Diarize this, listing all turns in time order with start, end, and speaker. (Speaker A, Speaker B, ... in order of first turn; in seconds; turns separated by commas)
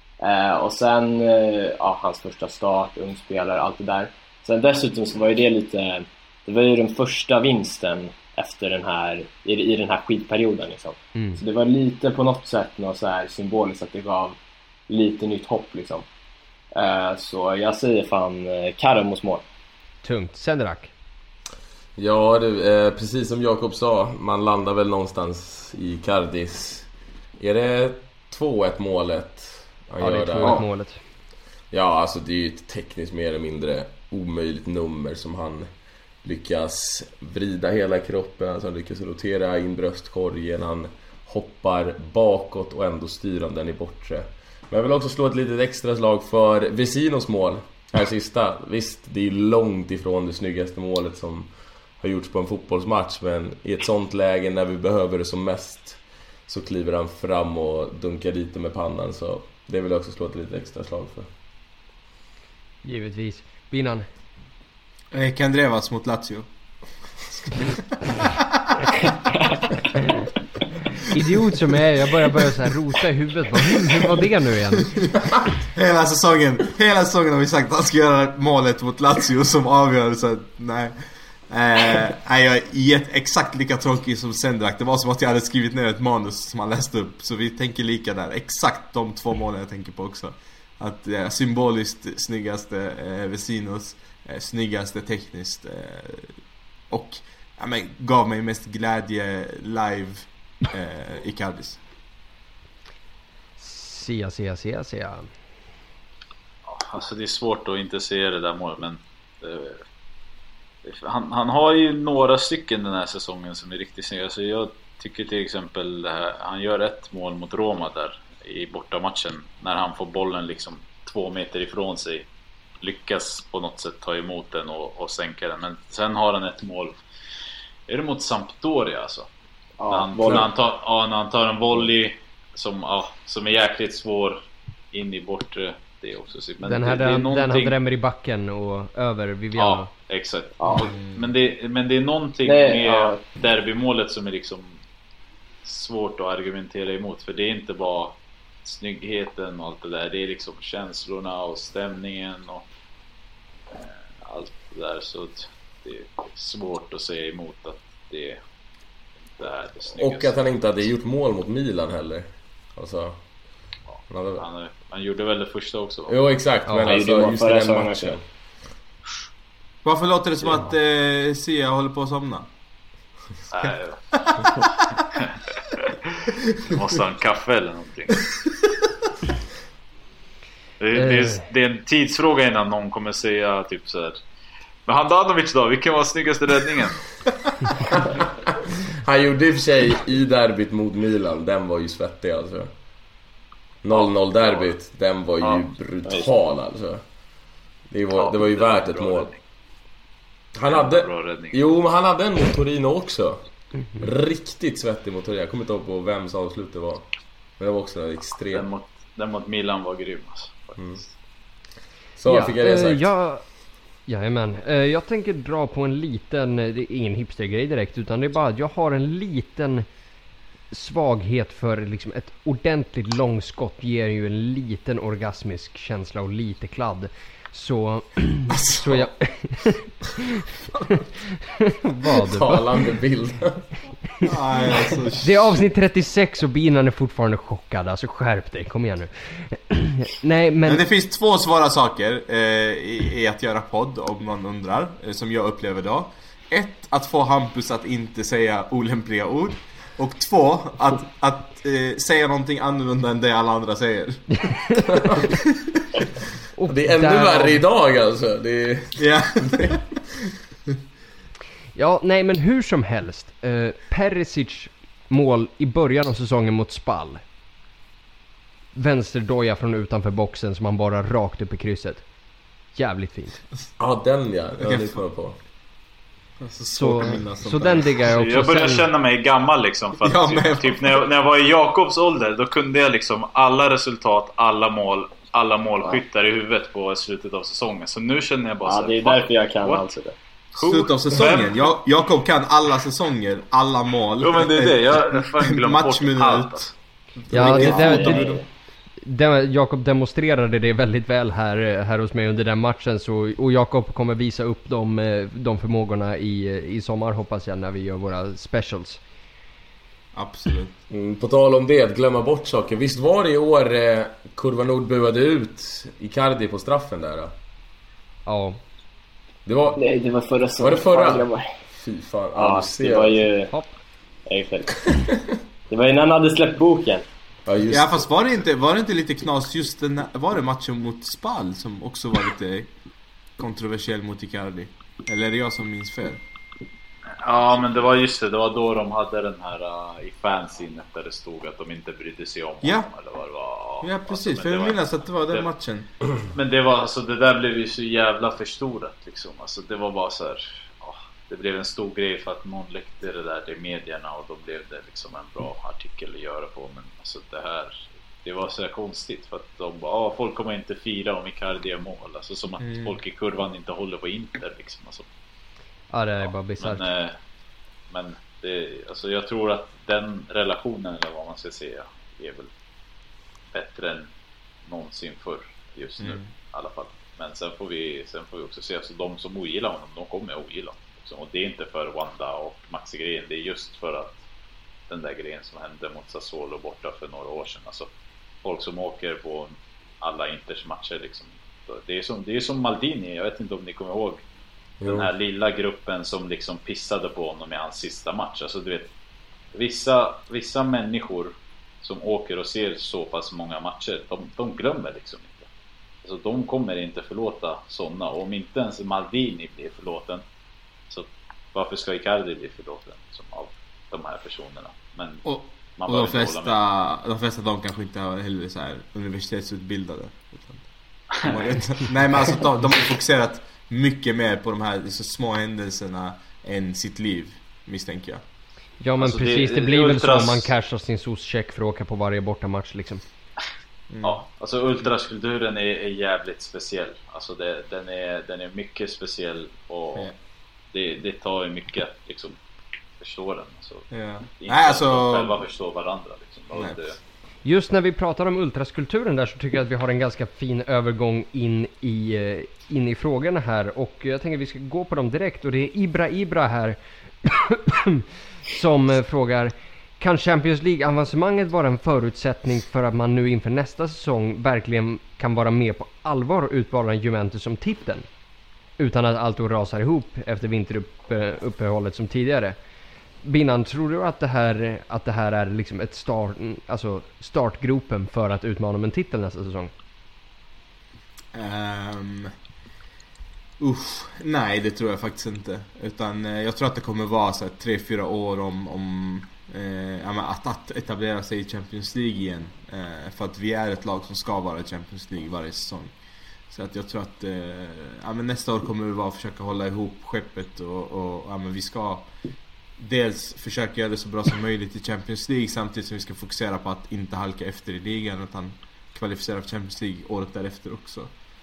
Speaker A: 0.2-14.4, Speaker B: 11.2-11.4, Speaker A: 14.9-16.1, Speaker A: 16.7-19.4, Speaker B: 20.0-20.9, Speaker C: 21.9-30.6, Speaker B: 30.0-31.0, Speaker C: 31.7-35.7, Speaker C: 36.2-61.3, Speaker B: 62.8-64.1, Speaker D: 65.1-66.5, Speaker D: 67.3-69.5, Speaker B: 71.0-75.0, Speaker D: 75.6-81.0, Speaker D: 81.5-96.4, Speaker D: 96.9-101.8, Speaker B: 103.6-105.3, Speaker E: 106.7-109.8, Speaker E: 110.8-122.3, Speaker E: 122.8-127.0, Speaker E: 127.9-129.3, Speaker A: 129.8-130.5, Speaker E: 129.9-134.4, Speaker E: 134.9-137.8, Speaker B: 136.6-139.9, Speaker E: 139.6-144.8, Speaker A: 140.6-140.9, Speaker D: 140.8-141.2, Speaker A: 142.4-143.2, Speaker E: 145.6-152.6, Speaker E: 153.7-158.4, Speaker E: 159.4-160.3, Speaker C: 159.9-163.2, Speaker E: 164.0-166.2, Speaker C: 164.1-164.4, Speaker C: 166.1-168.2, Speaker B: 166.7-167.0, Speaker A: 166.9-168.2, Speaker D: 169.8-172.5, Speaker E: 173.5-174.5, Speaker D: 174.3-174.6, Speaker E: 175.1-178.3, Speaker E: 180.8-184.2, Speaker B: 181.0-181.4, Speaker E: 184.9-187.0, Speaker C: 188.8-192.7, Speaker C: 193.8-197.0, Speaker E: 193.9-194.7, Speaker C: 197.9-199.3, Speaker E: 198.1-199.4, Speaker C: 200.5-203.4, Speaker E: 200.7-201.7, Speaker C: 204.0-207.1, Speaker C: 207.6-208.7, Speaker E: 208.5-211.1, Speaker C: 210.8-211.0, Speaker C: 212.2-213.1, Speaker B: 212.2-213.4, Speaker B: 214.1-219.9, Speaker B: 220.7-230.2, Speaker D: 228.5-229.1, Speaker B: 231.6-232.8, Speaker C: 232.2-233.6, Speaker D: 234.2-235.7, Speaker B: 235.2-240.8, Speaker D: 240.6-254.6, Speaker C: 254.9-255.3, Speaker D: 255.2-256.0, Speaker B: 256.6-257.6, Speaker C: 256.7-259.8, Speaker D: 259.0-259.8, Speaker B: 261.8-267.2, Speaker B: 268.8-272.0, Speaker B: 272.7-273.4, Speaker C: 273.8-275.4, Speaker D: 274.6-275.0, Speaker D: 276.4-277.9, Speaker B: 276.8-278.9, Speaker E: 278.1-289.8, Speaker D: 280.0-281.0, Speaker A: 288.6-290.1, Speaker E: 290.5-291.7, Speaker D: 290.6-298.4, Speaker E: 294.2-296.7, Speaker B: 297.3-298.3, Speaker A: 297.4-298.4, Speaker B: 299.0-309.0, Speaker D: 310.1-310.8, Speaker C: 310.9-317.3, Speaker B: 318.2-318.6, Speaker C: 319.5-319.8, Speaker A: 319.7-321.5, Speaker C: 320.6-323.2, Speaker A: 322.3-323.5, Speaker A: 324.3-324.9, Speaker A: 325.7-327.0, Speaker C: 327.5-328.1, Speaker D: 327.7-332.7, Speaker D: 333.4-336.2, Speaker E: 337.2-345.5, Speaker D: 343.8-345.9, Speaker E: 346.3-365.1, Speaker D: 362.6-363.0, Speaker B: 365.9-366.9, Speaker E: 366.6-367.2, Speaker E: 367.9-372.5, Speaker E: 373.5-374.1, Speaker E: 374.7-384.2, Speaker D: 376.0-376.3, Speaker E: 384.9-387.9, Speaker E: 388.4-394.2, Speaker C: 394.8-395.1, Speaker E: 394.8-398.9, Speaker E: 399.5-405.5, Speaker E: 406.0-410.2, Speaker E: 410.9-415.2, Speaker D: 415.2-428.2, Speaker E: 415.8-416.6, Speaker B: 428.8-433.0, Speaker E: 429.0-430.5, Speaker D: 433.9-434.2, Speaker E: 434.0-440.1, Speaker E: 440.7-442.4, Speaker E: 443.0-447.0, Speaker D: 443.9-445.4, Speaker D: 446.5-446.8, Speaker B: 447.4-468.1, Speaker B: 468.8-472.6, Speaker B: 473.2-479.7, Speaker D: 481.3-482.3, Speaker D: 483.6-495.9, Speaker D: 496.5-502.1, Speaker D: 502.8-511.1